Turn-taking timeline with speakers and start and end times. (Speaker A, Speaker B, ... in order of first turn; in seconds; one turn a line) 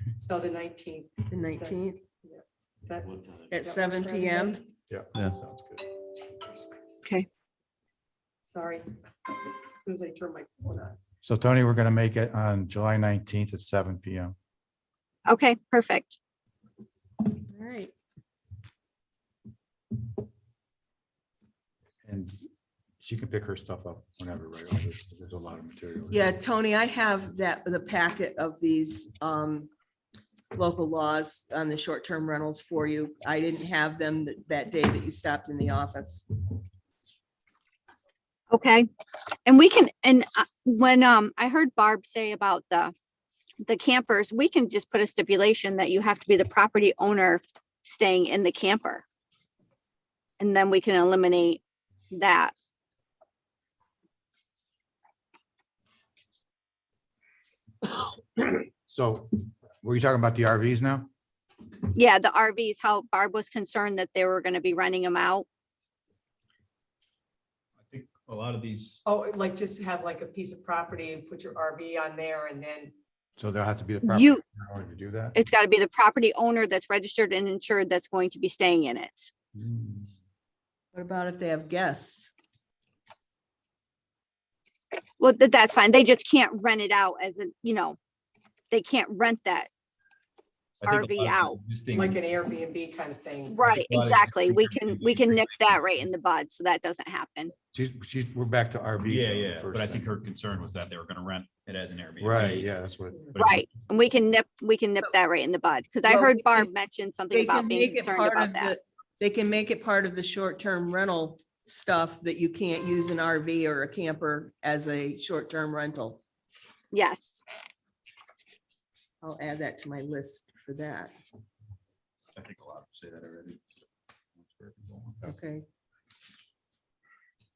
Speaker A: 0.2-4.7
Speaker B: 1.3-2.0
Speaker B: 3.5-4.6
Speaker C: 4.9-5.9
Speaker A: 6.1-7.1
Speaker A: 8.4-11.0
Speaker C: 11.2-14.4
Speaker D: 15.3-16.2
Speaker B: 17.4-17.9
Speaker C: 22.0-22.4
Speaker C: 23.0-26.3
Speaker B: 26.1-29.7
Speaker B: 30.5-36.3
Speaker D: 38.5-38.9
Speaker D: 39.5-42.9
Speaker D: 43.6-49.0
Speaker D: 50.4-52.5
Speaker C: 58.5-61.1
Speaker D: 61.9-65.5
Speaker E: 67.8-69.0
Speaker A: 69.0-72.9
Speaker C: 73.4-75.4
Speaker D: 74.0-74.4
Speaker D: 75.4-79.3
Speaker C: 79.5-80.1
Speaker B: 80.9-82.3
Speaker D: 85.2-88.0
Speaker D: 88.7-89.7
Speaker E: 90.8-92.2
Speaker D: 90.8-91.6
Speaker A: 91.9-93.7
Speaker D: 93.5-97.5
Speaker E: 93.6-95.6
Speaker C: 97.7-100.1
Speaker E: 99.0-102.7
Speaker C: 102.2-103.3
Speaker E: 103.3-103.7
Speaker D: 103.4-108.7
Speaker B: 106.0-106.7
Speaker B: 107.3-116.2
Speaker D: 116.9-117.4
Speaker B: 119.2-121.1
Speaker E: 122.3-123.7
Speaker E: 124.3-125.2
Speaker B: 125.2-125.7